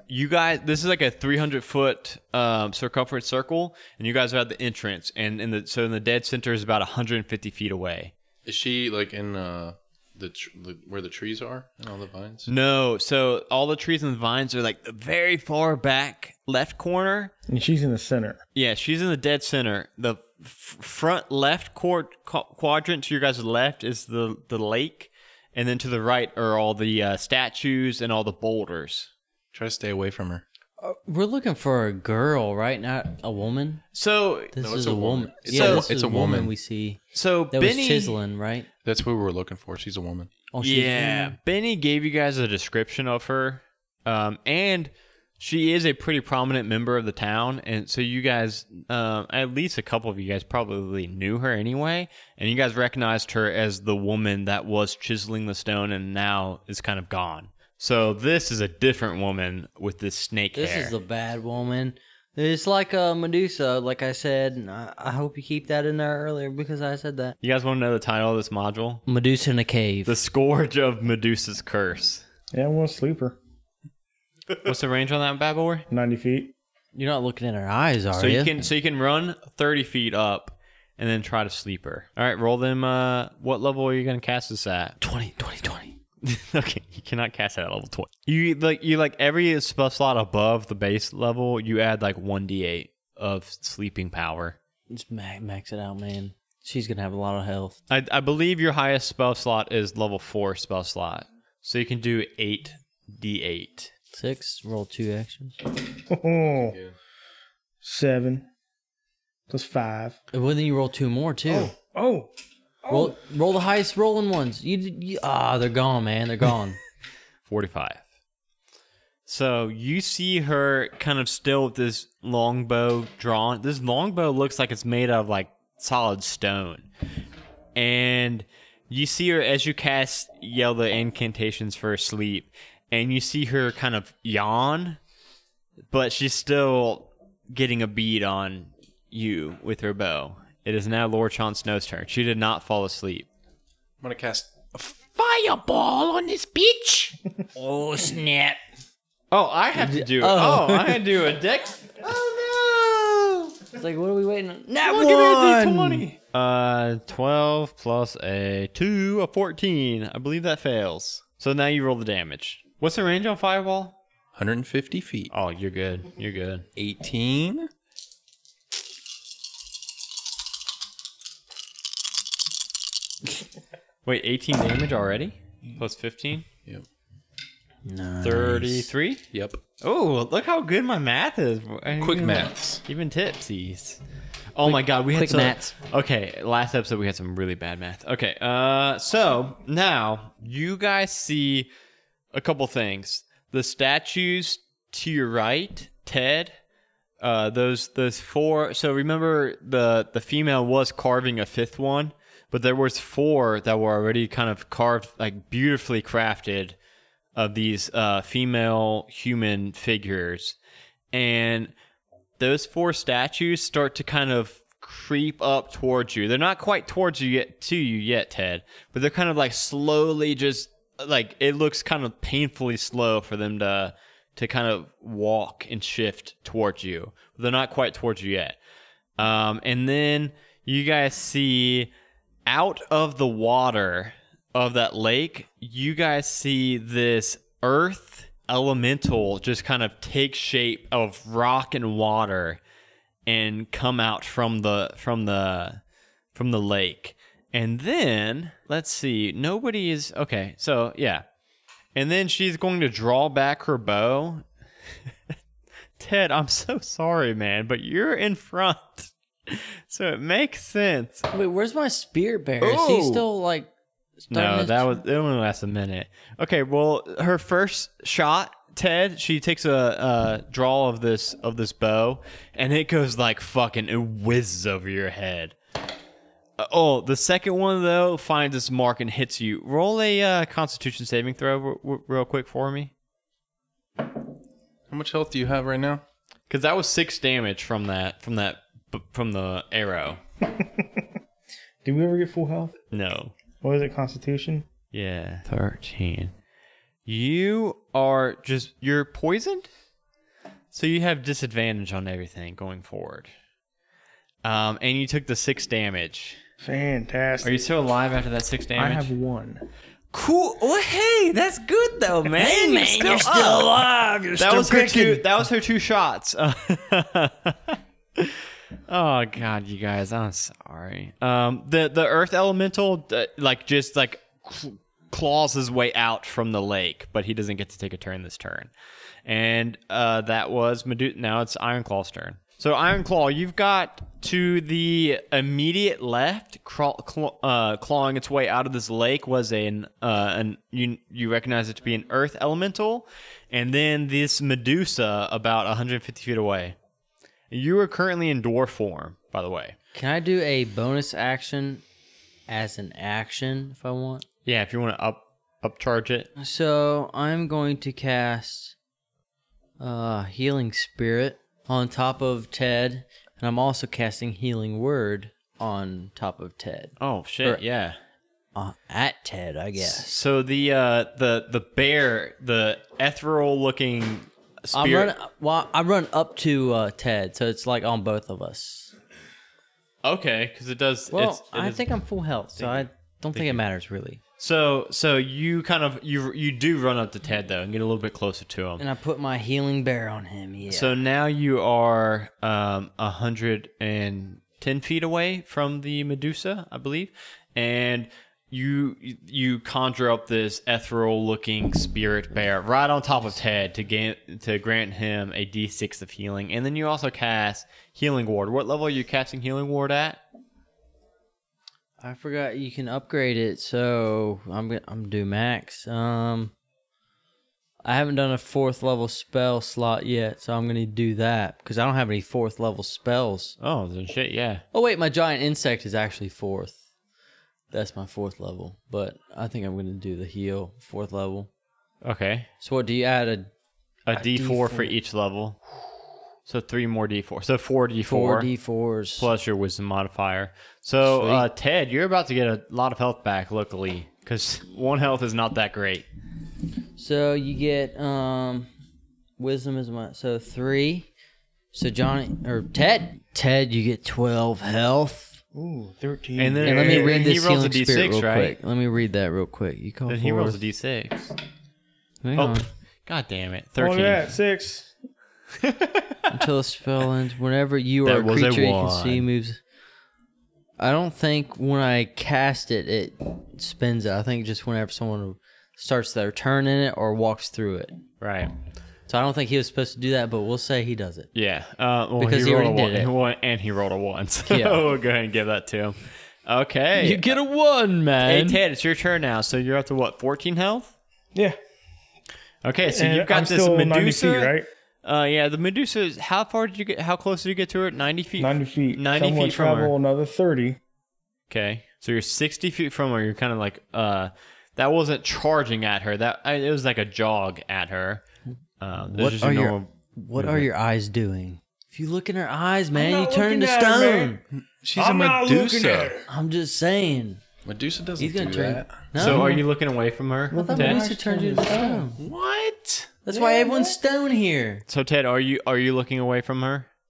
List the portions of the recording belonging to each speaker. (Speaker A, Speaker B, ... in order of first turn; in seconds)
Speaker A: 0.1-8.1, 12.5-17.3, 18.5-29.1, 33.9-34.5, 35.5-35.9, 37.1-38.2, 40.6-60.9, 67.4-69.0, 70.0-72.2, 74.5-75.8, 78.1-85.0, 86.2-94.6, 97.9-103.9, 117.5-118.0, 119.2-126.9, 127.8-135.0, 135.9-143.3, 149.3-153.6, 154.8-164.0, 165.3-166.7, 174.0-176.4, 178.2-179.2, 179.8-184.0, 184.5-191.7, 192.3-196.5, 197.2-206.8, 207.3-210.6, 211.1-211.7, 212.4-228.6, 229.2-231.9, 232.5-242.6, 243.2-245.8, 246.3-251.2, 251.9-254.4, 256.0-261.3, 262.6-263.2, 264.3-275.6, 276.6-282.9, 286.5-290.2, 292.9-293.3, 294.9-296.3, 297.1-299.7, 300.7-303.3, 304.4-306.4, 307.4-309.1, 310.1-313.7, 314.4-328.7, 329.2-346.8, 347.5-349.7, 354.4-356.3, 367.0-368.0, 369.8-375.1, 380.0-381.9, 382.5-383.6, 384.4-388.8, 390.7-410.2, 423.6-424.6, 432.0-432.5, 434.1-435.6, 436.4-438.5, 439.2-446.1, 456.4-458.6, 460.1-461.3, 462.3-464.3, 465.6-466.4, 468.0-469.2, 478.2-478.5, 481.3-487.3, 488.2-490.9, 492.6-499.9, 501.5-508.2, 508.8-510.7, 519.1-521.0, 524.9-526.9
Speaker B: 8.4-12.5, 29.5-30.4, 34.6-36.5, 38.8-40.3, 144.0-145.0, 164.3-165.3, 166.8-167.7, 179.3-179.6, 182.0-182.8, 284.9-286.0, 514.5-516.1, 517.6-519.4
Speaker C: 17.5-18.4, 72.5-73.4, 75.9-76.5, 106.1-106.8, 107.8-108.5, 109.5-110.2, 111.5-112.3, 112.8-113.2, 291.8-292.7, 293.6-294.7, 306.6-307.5, 308.8-309.6, 314.7-315.2, 455.5-457.2, 463.8-464.9, 492.9-494.6, 498.4-500.8, 512.9-514.4, 515.0-516.3, 520.5-522.1, 523.3-524.0
Speaker D: 30.8-33.8, 34.5-37.0, 37.5-38.7, 40.5-41.4, 60.5-67.4, 69.1-70.2, 76.9-78.5, 85.0-86.0, 94.9-97.8, 104.1-105.6, 110.3-111.7, 112.9-116.8, 147.5-148.6, 149.7-151.1, 153.7-156.1, 177.8-178.9, 184.6-185.7, 261.3-263.7, 264.2-265.0, 312.4-315.1, 349.9-351.8, 352.5-354.2, 356.4-358.7, 359.8-367.6, 368.5-370.1, 374.7-378.9, 381.1-384.2, 388.8-390.9, 412.0-416.5, 417.8-423.6, 424.7-426.8, 427.7-431.5, 432.6-433.5, 434.1-434.9, 438.1-439.3, 441.0-441.5, 447.0-448.7, 449.4-451.1, 451.7-455.4, 456.6-460.6, 462.2-462.6, 466.3-469.6, 470.8-478.0, 479.1-481.3, 482.2-483.1, 484.5-484.8, 487.0-488.6, 509.1-514.4, 516.3-517.4, 518.2-519.6, 520.6-522.2, 523.2-524.8
Speaker E: 144.9-147.2, 522.2-523.1